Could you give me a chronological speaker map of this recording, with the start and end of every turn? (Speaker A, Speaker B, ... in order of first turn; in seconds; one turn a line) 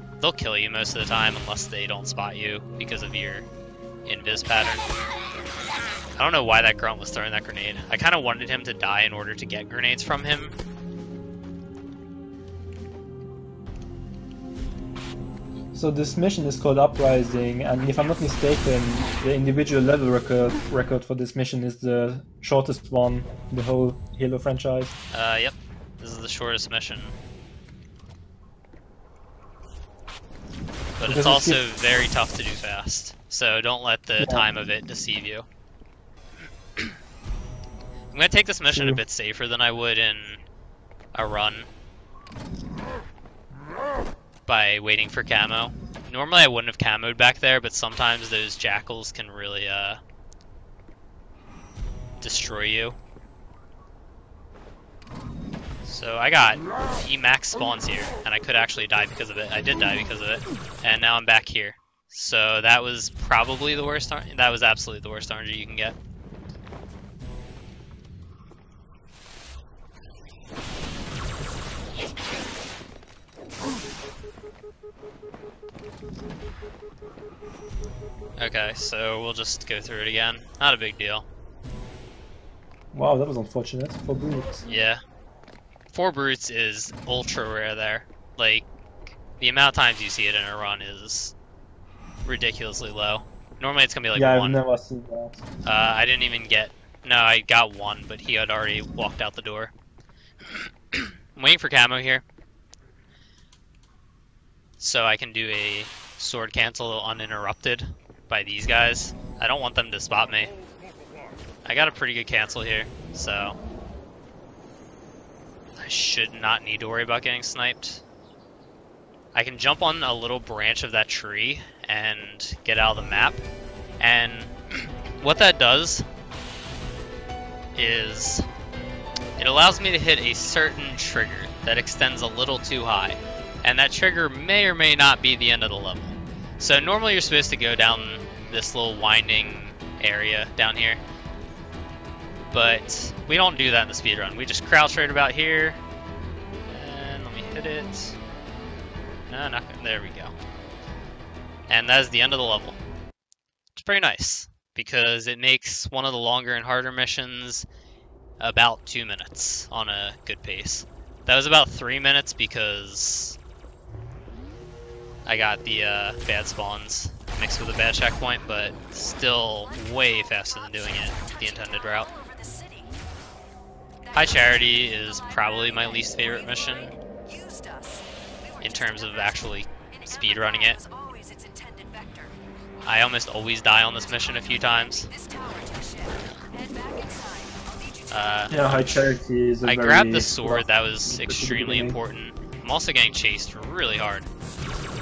Speaker A: 0.2-3.5
Speaker A: 4.0-4.8
Speaker A: 6.2-10.5
Speaker B: 15.7-24.9
Speaker A: 25.1-27.1
Speaker A: 31.0-35.5
Speaker B: 31.0-31.6
Speaker B: 34.2-34.5
Speaker A: 38.1-40.4
Speaker B: 38.7-39.0
Speaker A: 41.1-41.7
Speaker A: 44.5-50.0
Speaker A: 52.2-53.0
Speaker A: 55.9-66.0
Speaker A: 78.4-81.2
Speaker B: 82.9-84.6
Speaker A: 84.7-85.0
Speaker A: 85.9-88.7
Speaker A: 89.4-91.3
Speaker A: 92.2-94.6
Speaker B: 94.1-95.4
Speaker A: 95.6-99.7
Speaker A: 100.5-102.2
Speaker A: 104.8-110.5
Speaker A: 111.6-113.6
Speaker A: 115.8-118.0
Speaker A: 119.3-123.4
Speaker A: 124.0-126.0
Speaker A: 127.7-128.4
Speaker A: 129.4-141.0
Speaker A: 142.5-145.8
Speaker A: 146.7-148.2
Speaker A: 149.3-150.3
Speaker A: 151.7-152.8
Speaker A: 153.7-157.7
Speaker A: 158.4-163.4
Speaker A: 165.2-172.1
Speaker C: 169.6-172.9
Speaker C: 174.0-182.3
Speaker A: 174.1-176.9
Speaker A: 178.6-180.8
Speaker A: 182.8-185.1
Speaker C: 183.8-188.9
Speaker A: 188.1-189.1
Speaker B: 188.5-192.0
Speaker A: 189.6-194.3